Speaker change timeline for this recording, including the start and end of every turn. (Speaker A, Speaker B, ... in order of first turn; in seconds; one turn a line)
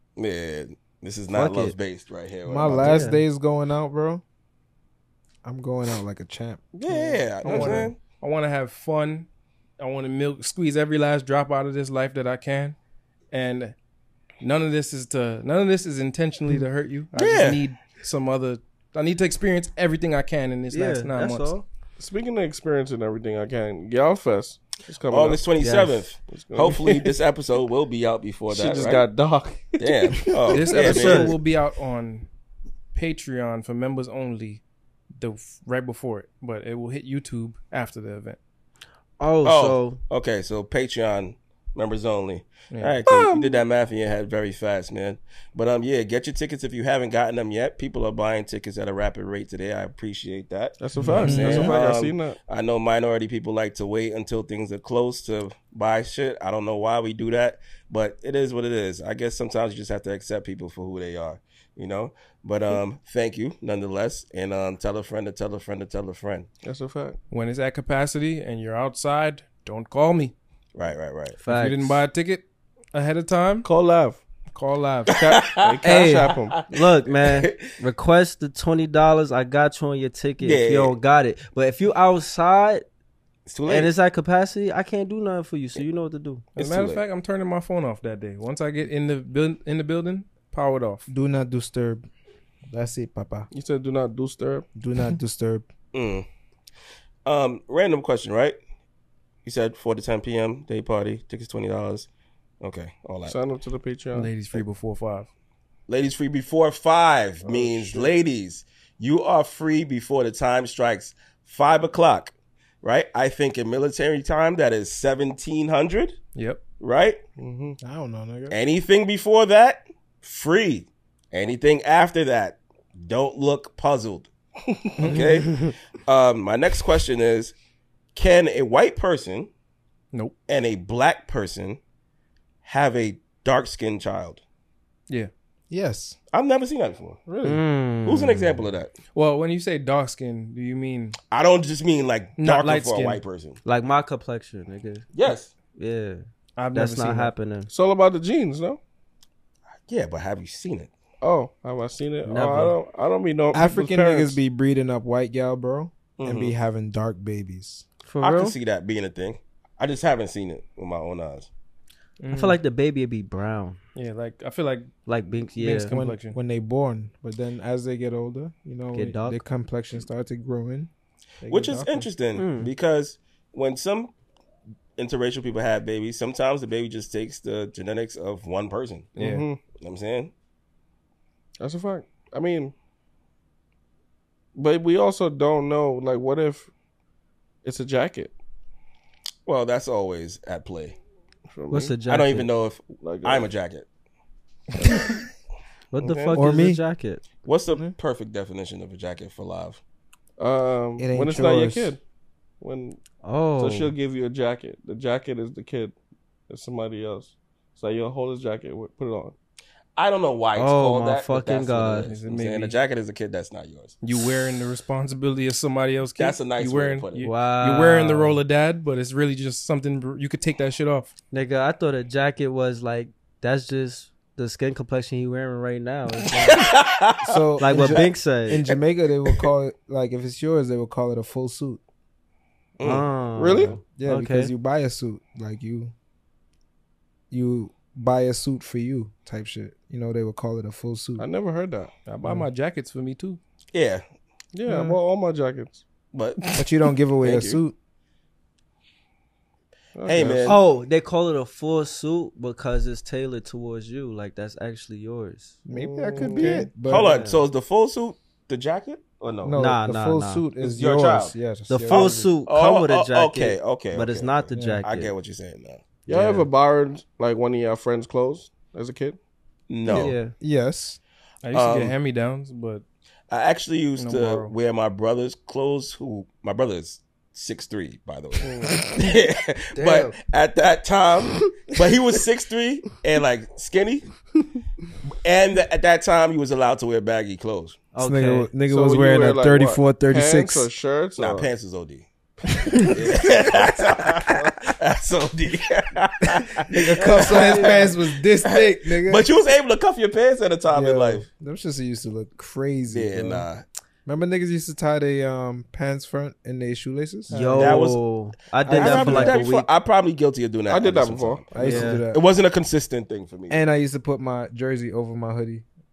Speaker A: 0.2-3.0
Speaker B: 1.3-1.7
Speaker C: 2.5-4.2
Speaker B: 2.8-3.2
Speaker C: 5.4-6.7
Speaker A: 6.7-8.0
Speaker C: 7.4-7.9
Speaker D: 7.4-9.3
Speaker D: 9.8-12.8
Speaker D: 13.3-13.7
Speaker D: 14.4-21.6
Speaker A: 17.1-17.6
Speaker B: 20.7-21.6
Speaker E: 22.0-25.5
Speaker A: 25.1-29.0
Speaker B: 25.6-26.0
Speaker E: 26.2-27.1
Speaker E: 28.5-30.9
Speaker A: 29.8-31.4
Speaker D: 30.5-32.3
Speaker B: 30.7-31.3
Speaker D: 32.9-34.6
Speaker D: 35.2-38.4
Speaker B: 39.2-40.0
Speaker A: 39.4-66.5
Speaker D: 42.7-43.0
Speaker E: 43.0-43.6
Speaker E: 50.8-52.4
Speaker D: 51.0-51.7
Speaker C: 51.1-51.8
Speaker E: 66.6-67.2
Speaker D: 67.3-70.3
Speaker A: 70.7-71.4
Speaker B: 71.4-72.0
Speaker D: 71.5-73.7
Speaker E: 73.6-74.2
Speaker D: 74.5-75.2
Speaker A: 75.1-77.7
Speaker E: 75.1-76.6
Speaker B: 75.8-82.8
Speaker A: 80.4-80.9
Speaker A: 83.5-83.9
Speaker B: 83.7-86.4
Speaker D: 86.5-91.1
Speaker A: 86.5-87.0
Speaker C: 91.1-92.0
Speaker C: 92.7-93.5
Speaker E: 93.5-94.7
Speaker C: 94.8-95.7
Speaker A: 95.9-96.2
Speaker A: 97.2-98.6
Speaker A: 99.4-102.1
Speaker A: 102.6-103.3
Speaker E: 103.2-104.3
Speaker D: 104.1-105.3
Speaker A: 105.9-116.2
Speaker E: 107.4-108.1
Speaker D: 116.3-116.6
Speaker A: 116.8-117.2
Speaker E: 117.4-117.8
Speaker C: 117.8-118.5
Speaker A: 118.5-124.3
Speaker A: 125.0-127.5
Speaker A: 128.1-129.5
Speaker A: 130.5-131.8
Speaker A: 132.6-134.4
Speaker C: 135.7-136.2
Speaker A: 136.3-137.2
Speaker E: 137.3-137.6
Speaker B: 137.4-138.7
Speaker A: 138.0-138.9
Speaker D: 139.1-141.2
Speaker A: 141.3-143.6
Speaker D: 142.4-143.2
Speaker B: 143.6-145.1
Speaker A: 145.1-145.5
Speaker B: 145.7-147.7
Speaker D: 146.6-147.3
Speaker E: 147.7-148.8
Speaker A: 149.9-150.9
Speaker E: 151.2-154.4
Speaker B: 152.2-152.8
Speaker C: 153.5-157.8
Speaker A: 156.2-156.6
Speaker B: 158.1-158.5
Speaker A: 158.2-161.5
Speaker D: 162.2-162.6
Speaker B: 162.3-163.8
Speaker D: 163.9-164.9
Speaker B: 165.1-165.9
Speaker D: 165.5-166.4
Speaker C: 165.9-172.1
Speaker B: 168.9-169.4
Speaker A: 171.5-174.1
Speaker B: 172.3-172.7
Speaker A: 175.0-179.1
Speaker E: 179.2-179.6
Speaker D: 179.2-179.4
Speaker A: 179.7-180.3
Speaker E: 181.6-182.7
Speaker E: 184.5-186.7
Speaker E: 187.6-188.3
Speaker A: 189.4-190.9
Speaker E: 191.5-191.9
Speaker B: 191.7-192.5
Speaker A: 192.0-193.8
Speaker E: 193.0-193.5
Speaker E: 194.7-195.2
Speaker B: 195.9-197.2
Speaker A: 196.0-196.4
Speaker C: 196.3-196.8
Speaker A: 197.4-199.8
Speaker E: 200.4-202.0
Speaker C: 201.0-201.9
Speaker E: 202.6-203.0
Speaker B: 203.2-203.9
Speaker E: 203.5-205.9
Speaker E: 206.5-209.3
Speaker A: 209.9-214.0
Speaker B: 210.5-212.1
Speaker D: 212.0-212.8
Speaker D: 214.0-221.1
Speaker A: 216.2-217.3
Speaker B: 217.2-218.4
Speaker B: 221.3-226.7
Speaker A: 226.5-229.4
Speaker C: 227.2-231.8
Speaker B: 227.6-228.6
Speaker A: 232.8-233.1
Speaker B: 232.8-234.5
Speaker E: 233.3-233.8
Speaker C: 233.8-235.9
Speaker C: 237.3-241.3
Speaker E: 241.2-241.9
Speaker D: 242.1-243.4
Speaker A: 243.7-244.0
Speaker E: 244.5-245.8
Speaker C: 244.7-245.0
Speaker A: 246.1-247.6
Speaker C: 246.6-247.7
Speaker E: 249.9-250.6
Speaker A: 250.0-250.6
Speaker B: 250.4-255.6
Speaker E: 255.7-256.7
Speaker C: 255.7-257.1
Speaker B: 256.3-257.4
Speaker A: 256.8-259.6
Speaker C: 259.4-262.3
Speaker B: 259.5-260.4
Speaker A: 260.6-261.3
Speaker B: 261.7-265.1
Speaker A: 261.9-265.8
Speaker C: 264.5-264.8
Speaker E: 266.1-269.2
Speaker B: 266.1-266.4
Speaker A: 269.7-270.1
Speaker C: 269.9-271.0
Speaker B: 269.9-270.3
Speaker D: 271.4-272.8
Speaker A: 271.5-271.9
Speaker A: 273.3-284.1
Speaker D: 274.0-274.5
Speaker B: 278.7-279.0
Speaker B: 279.7-280.1
Speaker A: 285.2-287.8
Speaker B: 287.9-288.5
Speaker C: 288.0-290.7
Speaker E: 288.6-291.5
Speaker A: 291.2-292.1
Speaker C: 292.6-292.9
Speaker A: 292.8-301.2
Speaker C: 296.6-299.3
Speaker B: 297.0-297.9
Speaker C: 300.7-303.5
Speaker A: 302.9-303.6
Speaker C: 304.1-307.3
Speaker D: 307.3-307.8
Speaker B: 307.3-309.7
Speaker A: 307.6-308.0
Speaker C: 308.6-309.4
Speaker A: 308.7-313.6
Speaker E: 310.7-311.6
Speaker C: 311.5-312.2
Speaker B: 311.6-312.0
Speaker C: 313.5-315.6